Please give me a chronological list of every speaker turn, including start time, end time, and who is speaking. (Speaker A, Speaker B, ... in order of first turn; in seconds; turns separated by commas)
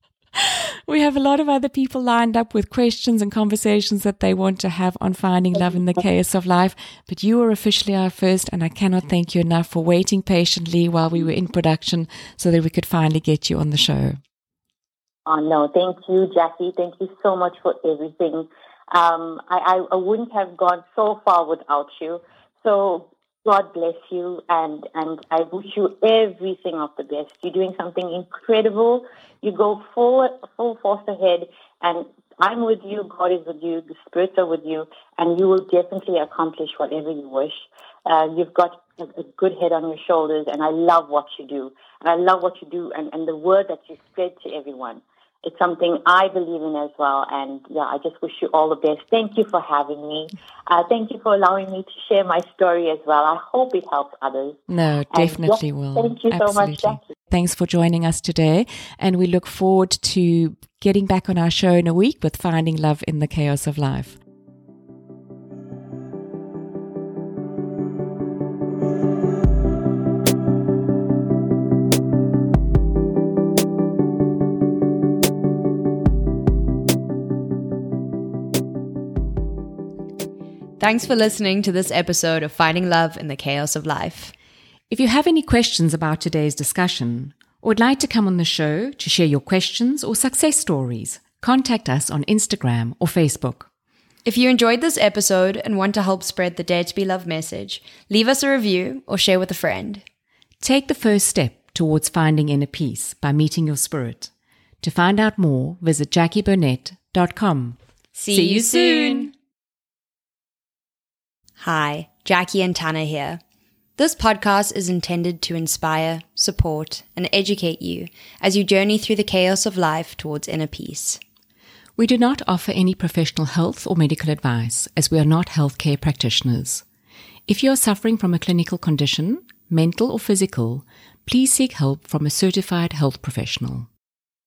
Speaker A: 0.3-14.2, Speaker B: 15.2-54.6, Speaker A: 54.7-64.2, Speaker B: 55.1-57.1, Speaker C: 80.8-84.3, Speaker A: 84.9-93.7, Speaker C: 94.2-100.0, Speaker A: 100.6-104.3, Speaker A: 104.8-109.3, Speaker C: 108.1-109.3, Speaker C: 111.6-113.4, Speaker C: 114.0-121.2, Speaker A: 122.0-126.8, Speaker A: 127.5-133.9